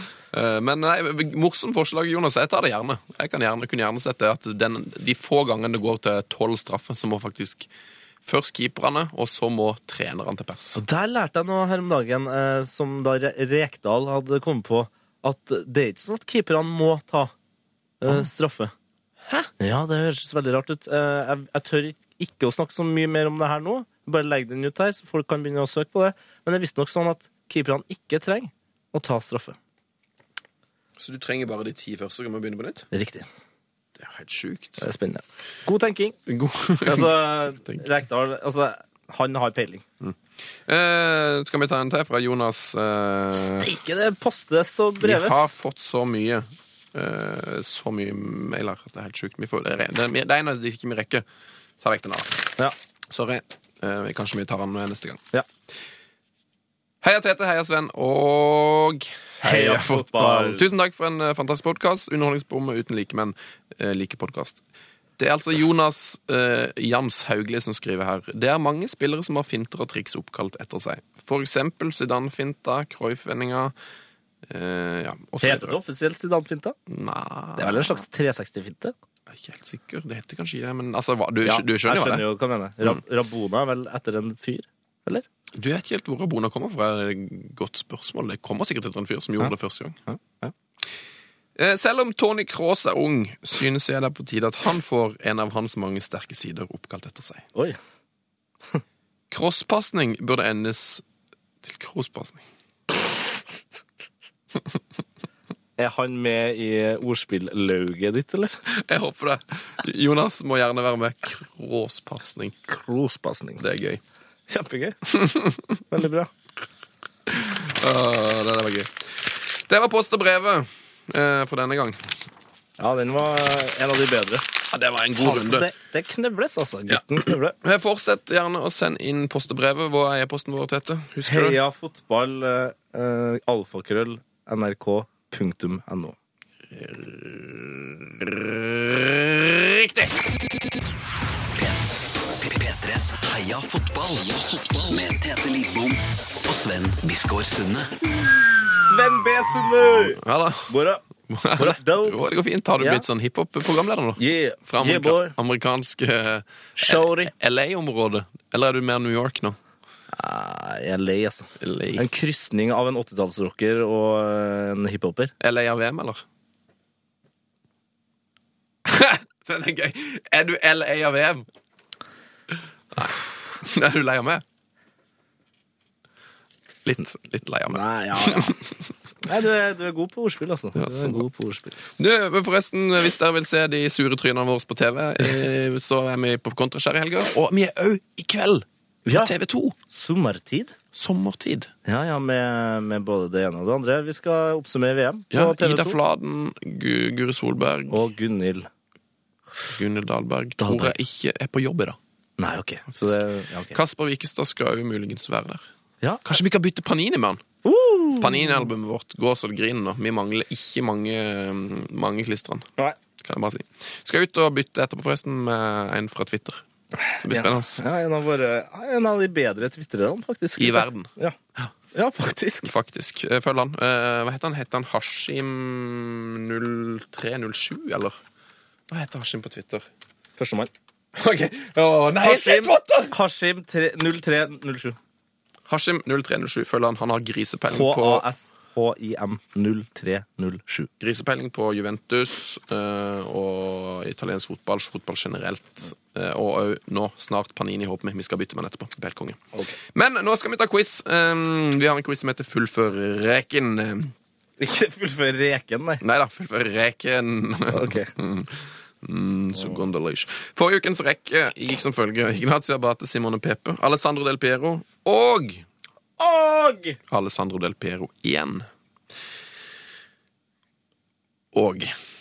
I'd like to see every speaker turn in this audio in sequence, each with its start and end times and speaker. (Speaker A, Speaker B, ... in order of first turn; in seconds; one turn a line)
Speaker A: 0.3-7.7
Speaker A: 8.2-10.8
Speaker B: 10.8-17.3
Speaker B: 18.0-18.7
Speaker B: 19.6-29.6
Speaker A: 31.0-32.9
Speaker B: 32.9-33.3
Speaker A: 34.0-34.8
Speaker B: 34.8-36.2
Speaker A: 36.3-37.1
Speaker B: 36.8-39.8
Speaker A: 40.0-43.7
Speaker B: 43.3-45.5
Speaker A: 45.0-51.2
Speaker A: 51.8-52.4
Speaker A: 53.1-55.2
Speaker A: 57.0-64.6
Speaker B: 59.4-60.6
Speaker A: 65.2-73.7
Speaker A: 74.5-75.8
Speaker B: 75.4-76.8
Speaker A: 76.9-78.0
Speaker B: 77.6-78.9
Speaker A: 79.3-82.2
Speaker B: 81.4-85.2
Speaker A: 85.6-90.0
Speaker B: 90.1-90.5
Speaker A: 91.6-97.5
Speaker A: 99.3-101.0
Speaker A: 101.6-102.4
Speaker B: 105.8-108.6
Speaker A: 108.7-112.5
Speaker B: 112.7-113.6
Speaker A: 113.6-114.0
Speaker B: 114.5-115.0
Speaker A: 115.1-115.8
Speaker B: 115.9-116.3
Speaker A: 117.3-122.1
Speaker B: 122.8-124.4
Speaker A: 124.7-125.7
Speaker B: 125.1-127.5
Speaker A: 127.6-131.6
Speaker B: 131.2-136.2
Speaker A: 136.7-140.1
Speaker C: 141.5-147.9
Speaker B: 148.7-151.0
Speaker A: 150.2-150.7
Speaker A: 151.3-159.6
Speaker B: 151.6-152.2
Speaker B: 152.8-153.1
Speaker B: 154.2-155.3
Speaker B: 156.8-157.3
Speaker B: 160.1-165.3
Speaker A: 161.6-162.1
Speaker A: 165.4-166.2
Speaker A: 168.8-171.4
Speaker A: 172.9-174.4
Speaker A: 176.8-178.6
Speaker B: 177.7-178.6
Speaker B: 179.2-181.8
Speaker A: 180.8-181.2
Speaker A: 182.0-189.8
Speaker B: 189.0-189.3
Speaker B: 189.9-190.7
Speaker A: 190.9-191.7
Speaker B: 191.8-196.0
Speaker A: 195.3-198.0
Speaker B: 197.9-198.7
Speaker A: 199.7-202.0
Speaker B: 200.6-200.9
Speaker B: 202.4-203.8
Speaker A: 203.7-205.7
Speaker A: 206.2-207.4
Speaker B: 207.6-208.7
Speaker A: 208.2-212.7
Speaker A: 213.2-216.6
Speaker B: 217.0-221.4
Speaker A: 217.2-217.8
Speaker A: 220.6-221.7
Speaker B: 221.9-222.7
Speaker A: 222.6-228.2
Speaker A: 228.9-229.8
Speaker B: 230.4-230.7
Speaker A: 231.2-233.1
Speaker B: 232.2-234.9
Speaker A: 235.7-238.2
Speaker B: 237.7-240.9
Speaker A: 241.0-249.4
Speaker A: 249.9-254.1
Speaker B: 254.6-256.0
Speaker A: 256.0-265.6
Speaker B: 257.7-258.1
Speaker B: 259.5-259.8
Speaker B: 266.2-267.0
Speaker A: 267.1-268.7
Speaker A: 271.5-271.9